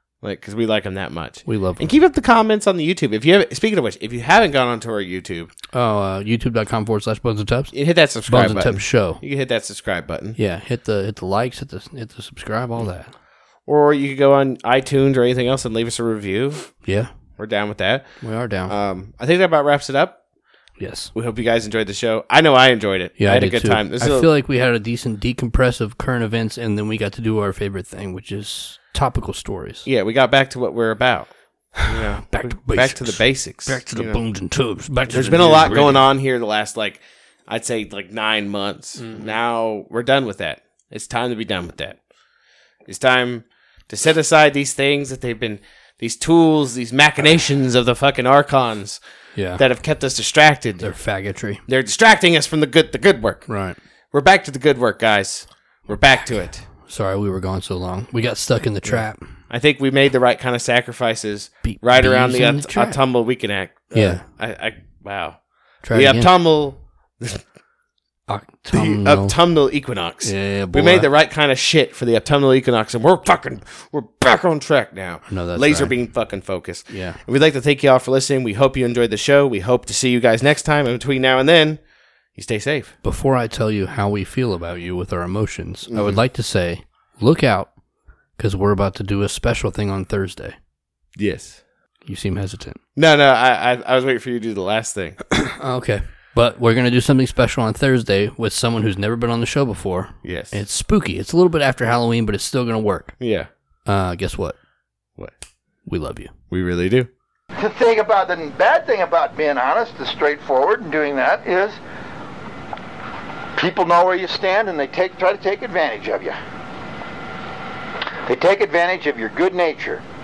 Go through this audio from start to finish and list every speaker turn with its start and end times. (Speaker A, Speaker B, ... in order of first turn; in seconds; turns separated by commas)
Speaker A: 0.2-5.5, Speaker B: 1.5-1.9, Speaker B: 5.7-7.7, Speaker A: 7.7-10.4, Speaker B: 8.3-9.2, Speaker B: 10.4-13.1, Speaker A: 13.7-16.7, Speaker B: 16.8-17.1, Speaker A: 17.4-18.1, Speaker B: 18.2-18.7, Speaker A: 18.7-20.2, Speaker B: 20.8-21.1, Speaker A: 21.1-24.3, Speaker B: 23.2-29.9, Speaker A: 29.9-34.2, Speaker B: 32.2-36.1, Speaker A: 35.1-42.0, Speaker B: 39.0-39.2, Speaker A: 42.9-49.0, Speaker B: 49.4-49.6, Speaker A: 49.6-50.9, Speaker B: 50.8-51.6, Speaker A: 51.7-53.5, Speaker B: 53.5-53.8, Speaker A: 54.1-56.6, Speaker B: 56.7-59.3, Speaker A: 58.9-65.4, Speaker B: 61.6-63.0, Speaker B: 63.9-64.2, Speaker B: 65.8-66.3, Speaker A: 65.9-67.4, Speaker B: 68.3-69.4, Speaker A: 68.7-81.8, Speaker B: 70.2-71.1, Speaker B: 75.3-75.9, Speaker B: 76.9-77.2, Speaker A: 82.3-82.9, Speaker B: 83.0-87.7, Speaker A: 85.9-86.2, Speaker B: 88.4-90.6, Speaker A: 91.2-91.6, Speaker B: 92.1-92.8, Speaker A: 93.0-95.2, Speaker B: 95.3-103.2, Speaker A: 100.2-100.6, Speaker A: 103.2-103.5, Speaker B: 103.9-104.6, Speaker B: 105.9-106.3, Speaker A: 106.5-107.1, Speaker C: 107.6-111.8, Speaker C: 113.6-116.4, Speaker C: 118.3-120.0